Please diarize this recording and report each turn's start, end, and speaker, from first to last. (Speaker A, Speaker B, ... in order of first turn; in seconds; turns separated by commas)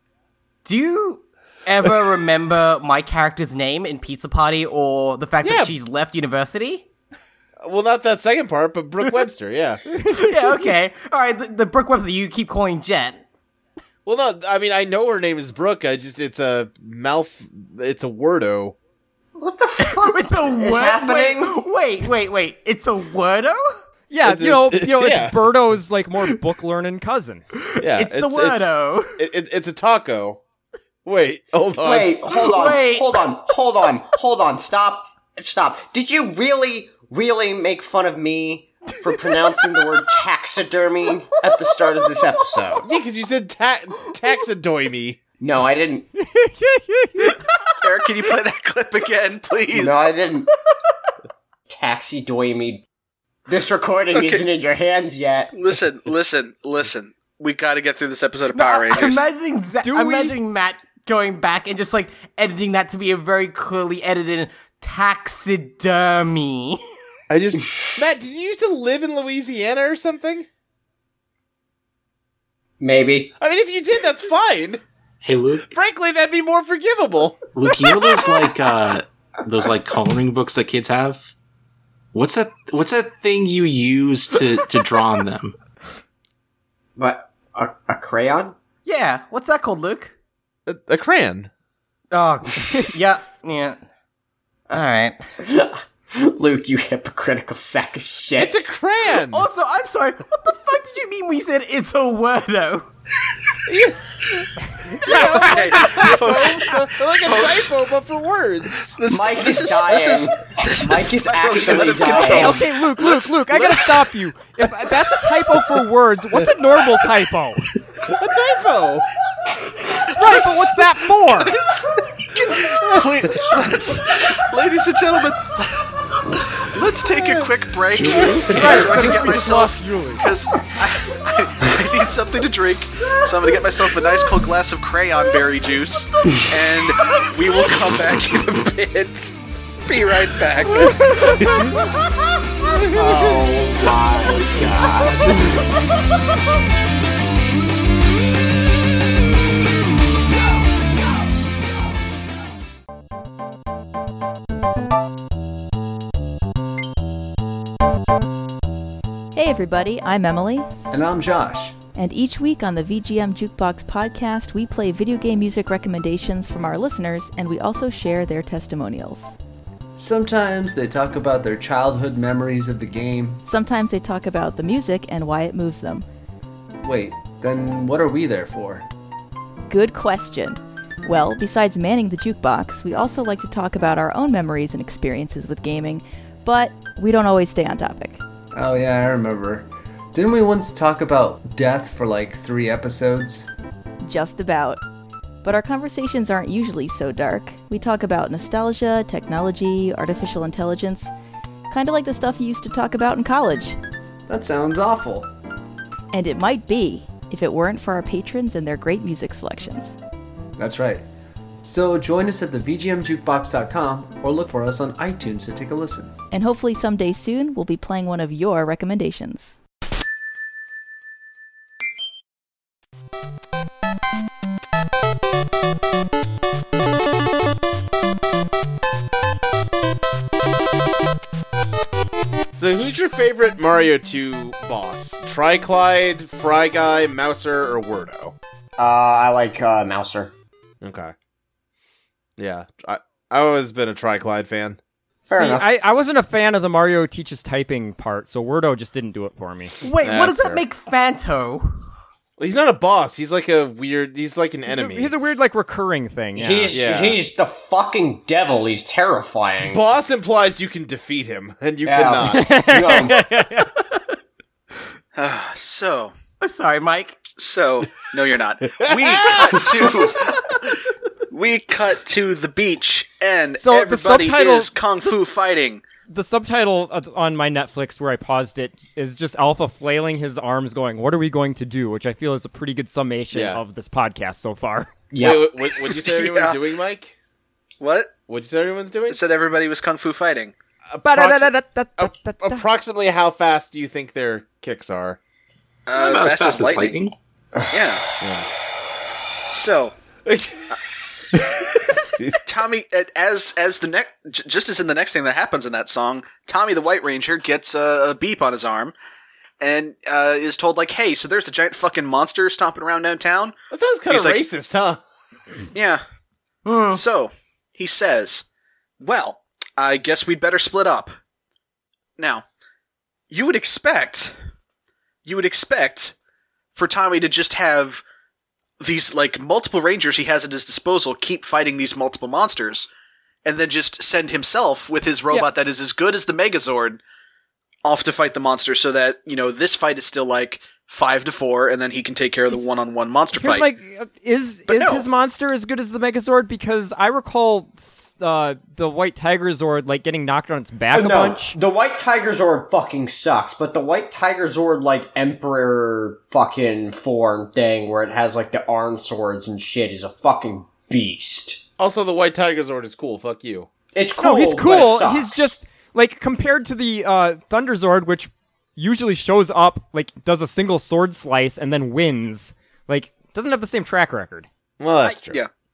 Speaker A: 0.7-6.9, Speaker B: 5.4-5.7, Speaker B: 7.6-9.8, Speaker A: 9.9-13.2, Speaker B: 14.1-18.8, Speaker C: 19.4-21.6, Speaker A: 19.8-23.6, Speaker D: 24.1-27.4, Speaker B: 24.2-25.5, Speaker A: 27.6-29.2, Speaker B: 27.8-30.4, Speaker B: 31.1-32.4, Speaker C: 31.8-42.9, Speaker A: 32.3-33.1, Speaker B: 42.8-45.2, Speaker C: 45.4-46.1, Speaker D: 46.2-47.4, Speaker E: 47.8-50.1, Speaker C: 49.7-50.5, Speaker C: 51.7-52.8, Speaker C: 53.5-55.5, Speaker E: 54.1-54.5, Speaker E: 55.5-59.2, Speaker A: 58.5-66.8, Speaker D: 59.8-60.4, Speaker B: 67.3-70.5, Speaker C: 72.8-73.3, Speaker B: 73.4-74.8, Speaker F: 75.2-75.7, Speaker B: 75.7-77.4, Speaker F: 77.5-81.3, Speaker F: 82.1-85.5, Speaker C: 87.0-88.5, Speaker A: 88.8-90.2, Speaker B: 90.7-91.5, Speaker A: 92.1-93.8, Speaker A: 94.7-95.2, Speaker C: 95.4-98.6, Speaker B: 98.4-99.5, Speaker A: 99.3-102.9, Speaker B: 103.7-109.0, Speaker D: 105.1-106.0, Speaker E: 105.1-107.8, Speaker E: 109.0-114.1, Speaker C: 109.1-112.6, Speaker D: 112.1-117.7, Speaker B: 118.1-119.1, Speaker D: 120.1-121.6, Speaker E: 120.3-120.6, Speaker E: 121.5-125.9, Speaker B: 122.5-123.6, Speaker E: 126.5-141.1, Speaker B: 127.1-130.2, Speaker F: 128.0-129.0, Speaker D: 128.5-130.2, Speaker A: 140.8-141.8, Speaker B: 142.8-143.6, Speaker C: 142.9-145.3, Speaker G: 159.3-160.7, Speaker H: 160.9-161.8, Speaker G: 162.0-169.3, Speaker H: 170.0-173.4, Speaker G: 173.5-176.0, Speaker H: 176.8-178.8, Speaker G: 179.7-188.2, Speaker H: 188.5-193.5, Speaker G: 194.1-194.8, Speaker G: 195.4-201.1, Speaker G: 201.7-203.8, Speaker H: 204.3-205.3, Speaker G: 206.1-209.9, Speaker H: 210.6-211.0, Speaker H: 211.6-216.1, Speaker G: 216.3-219.6, Speaker B: 232.6-238.3, Speaker C: 238.8-240.3, Speaker B: 240.8-241.1, Speaker B: 242.4-244.8, Speaker D: 245.3-249.8, Speaker C: 245.3-245.7, Speaker A: 249.8-251.8, Speaker B: 250.0-250.6, Speaker B: 252.4-255.1, Speaker D: 254.7-256.8, Speaker C: 256.4-259.8, Speaker B: 256.7-257.2, Speaker B: 259.6-262.6, Speaker C: 261.9-263.3, Speaker D: 262.3-263.7, Speaker E: 265.2-266.1, Speaker A: 266.4-267.2, Speaker E: 267.4-270.7, Speaker B: 268.8-269.9, Speaker E: 271.3-275.8, Speaker D: 273.6-274.7, Speaker D: 276.1-284.9, Speaker B: 283.3-283.6, Speaker C: 285.1-285.5, Speaker B: 285.2-287.1, Speaker E: 285.7-286.6, Speaker E: 287.8-288.1, Speaker B: 288.3-289.2, Speaker E: 289.1-290.5, Speaker B: 290.9-295.2, Speaker D: 291.0-292.6, Speaker E: 295.9-296.9, Speaker F: 295.9-297.1, Speaker E: 297.7-298.0, Speaker B: 298.2-298.5, Speaker E: 299.5-299.9, Speaker B: 300.3-300.7, Speaker E: 302.4-308.9, Speaker E: 309.6-313.6, Speaker B: 313.7-315.0, Speaker E: 314.1-314.4, Speaker E: 315.7-316.0, Speaker A: 316.7-317.0, Speaker E: 316.9-318.4, Speaker E: 319.0-321.1, Speaker E: 322.2-322.4, Speaker E: 323.3-324.3, Speaker E: 325.2-326.1, Speaker E: 326.8-328.0, Speaker E: 328.8-332.9, Speaker E: 333.4-337.0, Speaker E: 337.8-343.7, Speaker D: 343.3-351.6, Speaker E: 344.7-345.1, Speaker C: 350.9-361.6, Speaker B: 361.8-363.7, Speaker C: 363.9-365.5, Speaker D: 364.2-374.5, Speaker B: 374.8-375.4